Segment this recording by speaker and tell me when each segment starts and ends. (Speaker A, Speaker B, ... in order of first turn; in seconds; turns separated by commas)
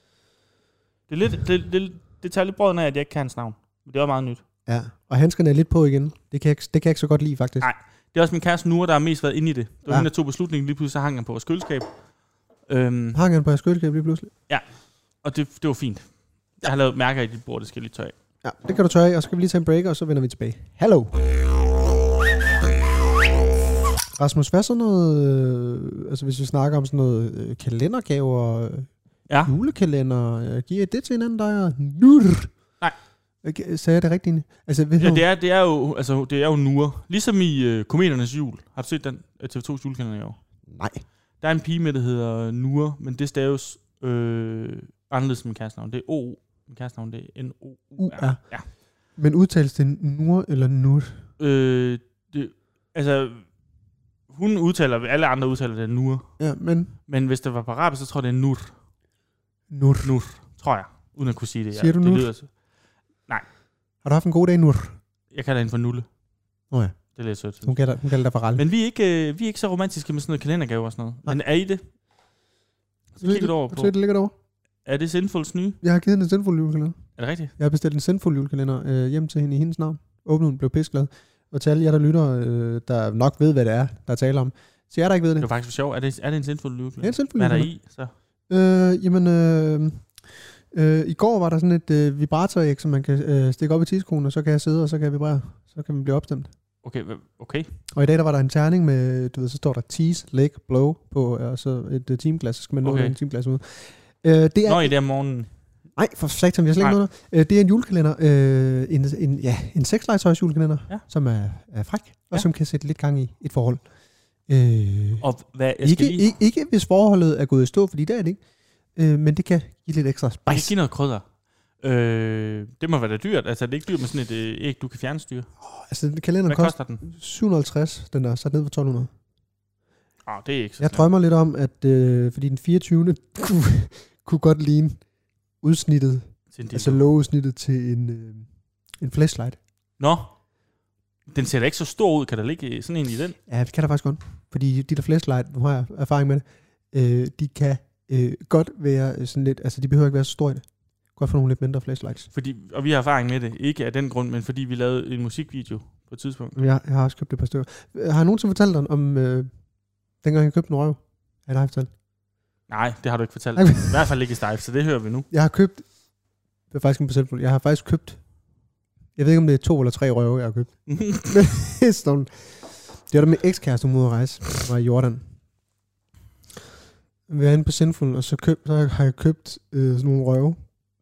Speaker A: 1.1-4.4, Speaker B: 4.7-7.7, Speaker A: 7.6-12.1, Speaker A: 12.6-13.2, Speaker B: 13.1-14.3, Speaker A: 14.5-18.1, Speaker B: 18.4-21.1, Speaker B: 24.1-28.9, Speaker A: 29.3-29.5, Speaker B: 29.4-32.5, Speaker B: 33.4-35.2, Speaker A: 35.0-40.4, Speaker B: 40.7-41.0, Speaker A: 41.4-48.7, Speaker B: 48.0-51.2, Speaker A: 51.4-53.6, Speaker A: 54.3-56.3, Speaker B: 56.4-56.9, Speaker A: 57.1-58.8, Speaker B: 59.7-60.2, Speaker A: 60.0-63.5, Speaker B: 61.7-62.3, Speaker B: 64.0-65.0, Speaker A: 65.3-66.1, Speaker B: 66.7-68.6, Speaker A: 67.2-67.9, Speaker A: 68.5-71.8, Speaker A: 73.2-73.9, Speaker B: 73.2-74.3, Speaker A: 74.8-75.8, Speaker B: 75.8-85.5, Speaker A: 77.2-77.5, Speaker A: 85.4-88.1, Speaker B: 87.0-87.8, Speaker B: 88.5-96.5, Speaker A: 96.8-97.7, Speaker B: 97.9-105.0, Speaker A: 102.8-103.2, Speaker A: 104.7-105.5, Speaker B: 106.0-113.8, Speaker B: 114.5-115.3, Speaker A: 115.2-116.3, Speaker B: 115.8-118.4, Speaker B: 119.0-120.7, Speaker A: 120.5-125.5, Speaker B: 125.6-129.1, Speaker A: 126.5-127.0, Speaker A: 130.2-131.1, Speaker B: 130.8-135.1, Speaker B: 135.6-139.6, Speaker A: 136.5-137.1, Speaker A: 140.0-140.4, Speaker A: 141.3-143.4, Speaker B: 143.5-152.3, Speaker A: 152.3-156.6, Speaker B: 156.6-159.6, Speaker B: 160.1-161.9, Speaker A: 162.7-165.3, Speaker B: 163.6-164.0, Speaker B: 165.3-166.0, Speaker B: 166.7-168.3, Speaker B: 169.2-172.3, Speaker A: 170.9-171.3, Speaker B: 173.0-175.2, Speaker B: 177.3-180.7